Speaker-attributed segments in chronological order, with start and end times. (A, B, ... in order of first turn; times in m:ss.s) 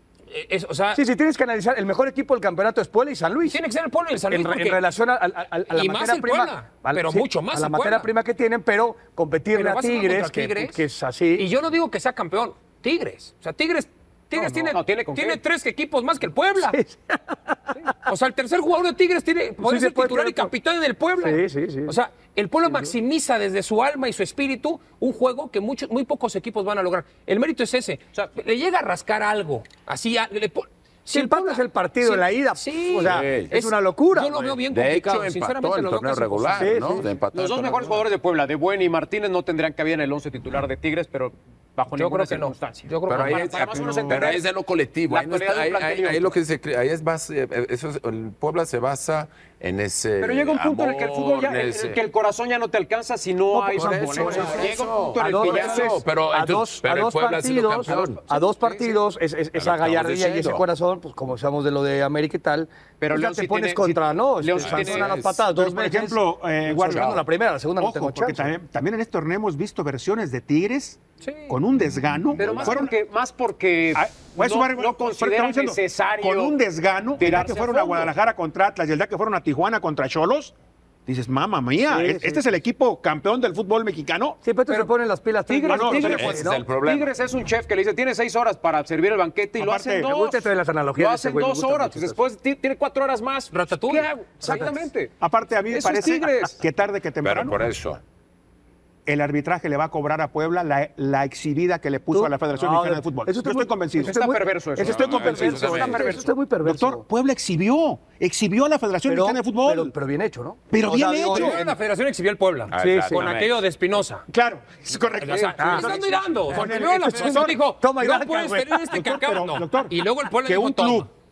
0:00.3-0:01.0 A
0:00.9-0:03.6 B
0:03.5-0:04.8 A
0:04.3-0:11.5 B
0:05.7-0:08.1 A
0:09.5-0:10.8 A
0:11.4-0:16.8 A
0:14.3-0:15.4 C
0:16.6-0:18.1 B
0:18.0-0:37.0 A
0:19.6-0:20.5 B
0:21.2-0:22.0 B
0:31.1-0:34.4 B
0:33.0-0:33.5 D
0:34.4-0:38.0 D
0:36.6-0:37.1 B
0:37.3-0:44.4 C
0:42.0-0:44.3 A
0:43.1-0:52.0 D
0:45.1-0:46.4 C
0:50.2-0:56.0 C
0:53.5-1:08.5 B
0:53.7-0:58.2 D
0:57.9-0:59.0 C
0:59.6-1:00.6 D
1:03.0-1:05.2 C
1:04.6-1:05.4 D
1:05.5-1:07.2 E
1:06.7-1:07.2 D
1:07.8-1:12.9 E
1:11.2-1:11.6 A
1:12.4-1:12.9 D
1:12.4-1:16.6 C
1:14.0-1:20.5 E
1:17.2-1:18.1 C
1:21.0-1:24.4 E
1:21.8-1:22.4 B
1:24.4-1:26.6 B
1:25.5-1:35.1 C
1:25.7-1:26.4 E
1:26.0-1:27.1 D
1:29.6-1:30.2 E
1:30.0-1:32.2 B
1:33.5-1:34.8 A
1:34.4-1:34.7 B
1:35.2-1:37.6 E
1:35.7-1:36.6 C
1:37.2-1:38.0 D
1:39.0-1:44.2 E
1:42.1-1:47.0 B
1:44.0-1:46.3 C
1:44.8-1:46.1 D
1:45.2-1:49.9 E
1:49.0-1:51.7 B
1:50.7-1:51.6 E
1:51.3-1:54.2 A
1:52.7-1:53.6 D
1:52.8-1:53.3 B
1:54.3-1:57.6 E
1:55.2-2:01.1 A
1:55.3-1:56.2 C
1:55.6-1:55.9 B
1:56.5-1:58.9 B
1:58.9-2:01.1 E